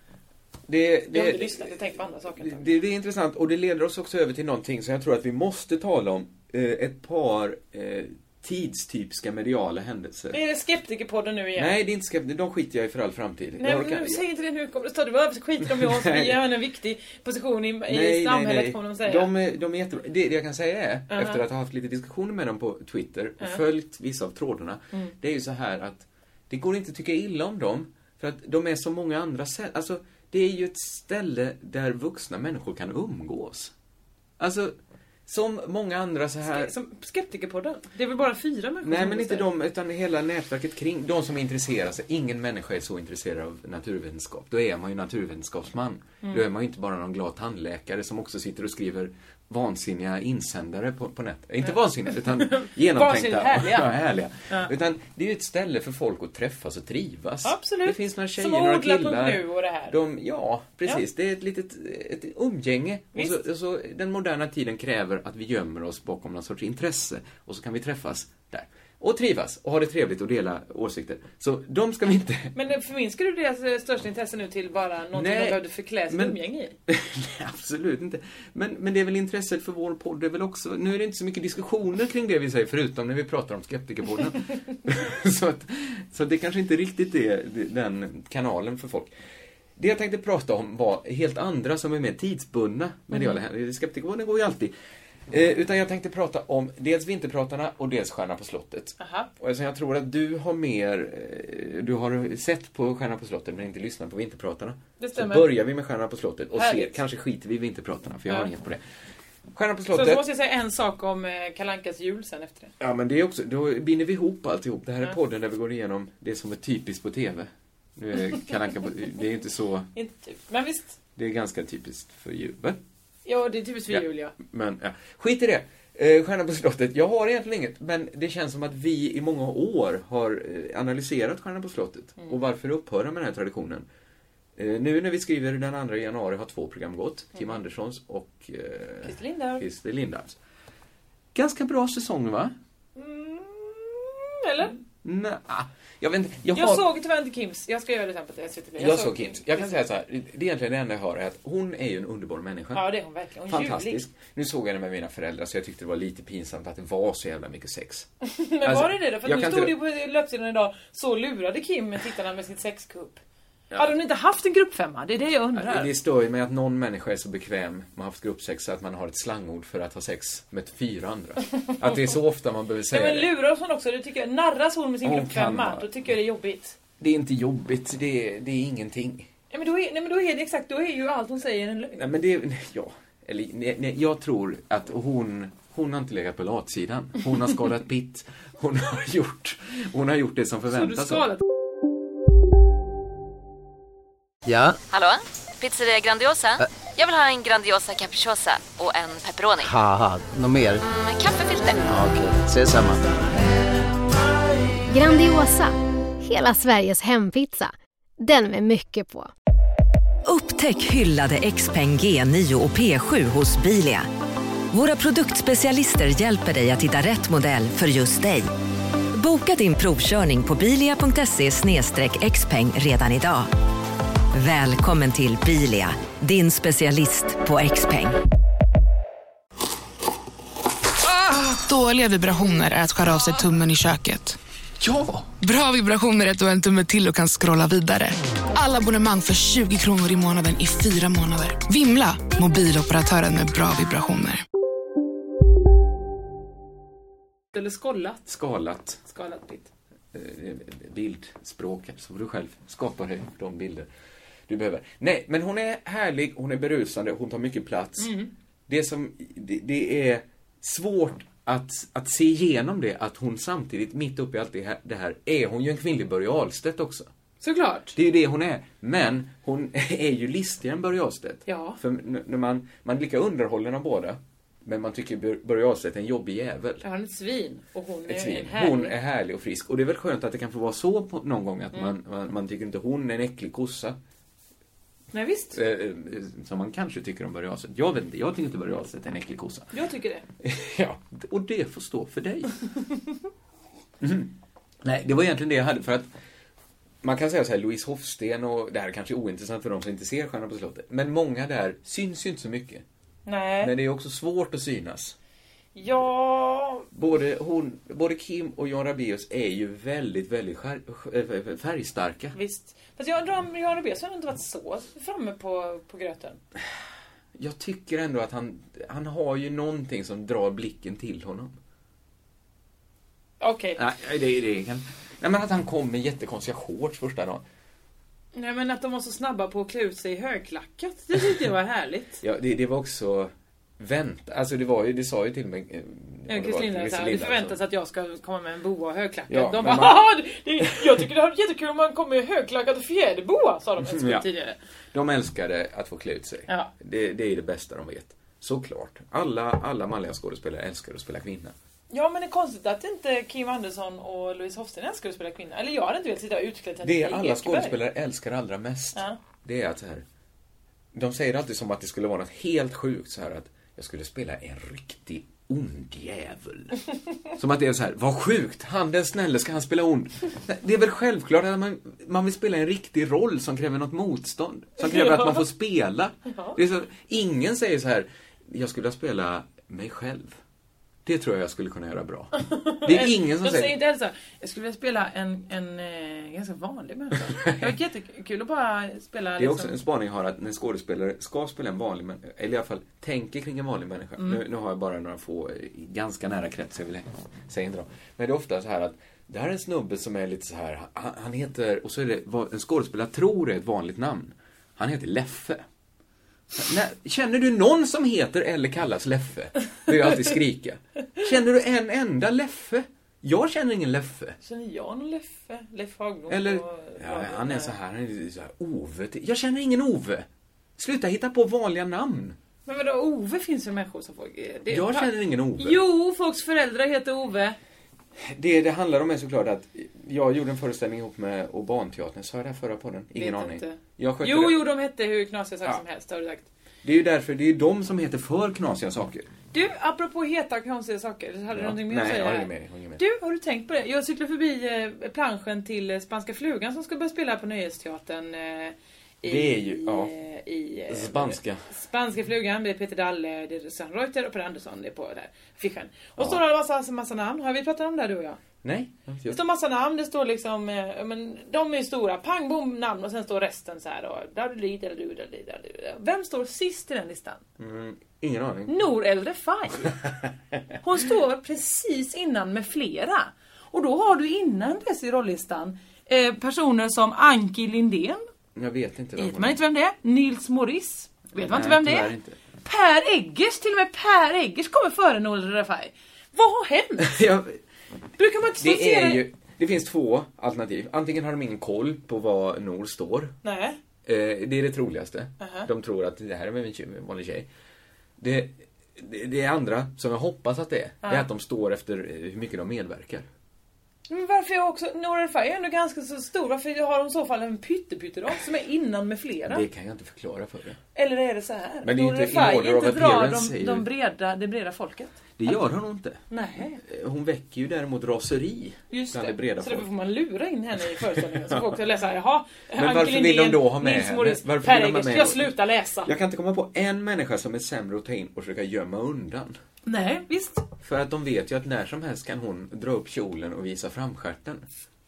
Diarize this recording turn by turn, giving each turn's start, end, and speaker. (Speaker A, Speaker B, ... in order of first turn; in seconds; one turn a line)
Speaker A: 0.7-10.4
Speaker B: 1.1-2.7
Speaker B: 10.3-11.8
Speaker A: 11.6-14.2
Speaker B: 13.6-19.3
Speaker A: 15.6-16.4
Speaker A: 17.9-33.7
Speaker B: 21.1-21.4
Speaker A: 34.4-34.8
Speaker A: 35.3-36.7
Speaker B: 36.4-39.5
Speaker A: 38.8-72.5
Speaker B: 51.6-53.9
Speaker B: 57.4-60.0
Speaker B: 63.1-63.4
Speaker B: 72.5-76.8
Speaker A: 75.1-89.1
Speaker A: 89.8-94.7
Speaker B: 93.1-93.4
Speaker A: 95.3-108.8
Speaker B: 99.0-99.3
Speaker B: 105.0-105.5
Speaker B: 106.5-107.0
Speaker A: 109.5-110.2
Speaker B: 109.9-112.7
Speaker A: 112.8-119.9
Speaker B: 120.0-121.0
Speaker A: 121.2-122.8
Speaker B: 123.2-124.3
Speaker A: 123.9-133.9
Speaker A: 134.6-140.4
Speaker B: 139.1-139.6
Speaker A: 141.3-142.6
Speaker B: 143.0-144.8
Speaker A: 145.0-146.9
Speaker B: 146.5-149.7
Speaker A: 148.8-152.9
Speaker B: 152.7-154.1
Speaker A: 153.5-158.1
Speaker B: 158.2-163.2
Speaker A: 158.6-159.8
Speaker B: 163.8-165.9
Speaker A: 165.6-173.3
Speaker B: 171.5-172.2
Speaker B: 172.9-176.8
Speaker A: 175.0-175.9
Speaker A: 177.0-179.3
Speaker B: 179.5-182.0
Speaker A: 182.0-191.3
Speaker B: 190.7-191.4
Speaker C: 194.4-194.8
Speaker D: 194.9-199.7
Speaker C: 199.6-200.8
Speaker D: 200.8-202.0
Speaker C: 201.9-203.1
Speaker E: 204.9-209.3
Speaker F: 210.2-214.1
Speaker F: 214.7-218.5
Speaker F: 219.1-223.5
Speaker F: 224.3-228.2
Speaker G: 231.6-234.4
Speaker A: 234.8-235.3
Speaker G: 235.4-244.4
Speaker B: 247.5-248.3
Speaker A: 248.3-249.0
Speaker B: 249.1-249.7
Speaker A: 250.1-253.9
Speaker A: 254.5-258.1
Speaker B: 258.0-258.3
Speaker A: 258.7-267.1
Speaker B: 267.4-268.0
Speaker A: 267.9-276.8
Speaker B: 271.5-271.8
Speaker B: 276.8-278.9
Speaker A: 278.1-284.0
Speaker B: 285.1-285.6
Speaker A: 285.5-289.7
Speaker B: 289.7-290.2
Speaker A: 290.4-292.5
Speaker A: 294.0-296.1
Speaker A: 297.0-302.9
Speaker B: 303.3-303.7
Speaker A: 303.6-305.2
Speaker B: 305.8-306.9
Speaker A: 306.9-312.4
Speaker B: 312.4-316.4
Speaker A: 317.4-321.6
Speaker B: 323.4-323.8
Speaker A: 323.8-327.4
Speaker B: 328.4-332.2
Speaker A: 332.2-337.6
Speaker B: 336.3-344.6
Speaker A: 339.3-340.1
Speaker A: 340.6-341.0
Speaker A: 343.8-344.3
Speaker A: 344.9-351.6
Speaker B: 351.9-357.8
Speaker A: 356.8-360.1
Speaker A: 360.9-366.8
Speaker A: 367.4-380.4
Speaker B: 374.8-375.4
Speaker B: 376.3-376.6
Speaker A: 381.1-382.3
Speaker B: 382.4-389.8
Speaker A: 382.8-383.8
Speaker A: 387.3-387.8
Speaker A: 389.4-405.6
Speaker A: 406.5-414.4
Speaker B: 414.4-417.8
Speaker A: 416.3-420.3
Speaker A: 420.8-422.4
Speaker B: 422.7-427.6
Speaker A: 424.7-425.8
Speaker A: 428.2-434.6
Speaker B: 433.1-436.5
Speaker A: 436.8-439.3
Speaker B: 439.5-458.4
Speaker A: 441.5-443.0
Speaker A: 449.2-450.1
Speaker A: 450.9-451.6
Speaker A: 458.6-459.4
Speaker B: 459.3-467.4
Speaker A: 467.6-468.7
Speaker B: 468.7-470.0
Speaker B: 470.8-478.2
Speaker A: 478.6-479.6
Speaker B: 479.2-482.1
Speaker A: 481.4-482.4
Speaker B: 482.6-487.1
Speaker A: 487.0-487.6
Speaker B: 488.2-489.2
Speaker A: 488.6-493.3
Speaker B: 493.4-493.8
Speaker A: 494.1-497.5
Speaker B: 495.4-495.7
Speaker A: 498.2-503.3
Speaker B: 504.1-509.6
Speaker A: 509.5-510.8
Speaker B: 510.9-515.5
Speaker A: 511.8-513.9
Speaker A: 515.4-516.2
Speaker B: 516.3-516.8
Speaker A: 516.8-519.9
Speaker B: 518.9-526.1
Speaker A: 521.2-521.7
Speaker A: 522.8-525.5
Speaker A: 526.0-529.6
Speaker B: 529.9-530.7
Speaker A: 530.8-534.6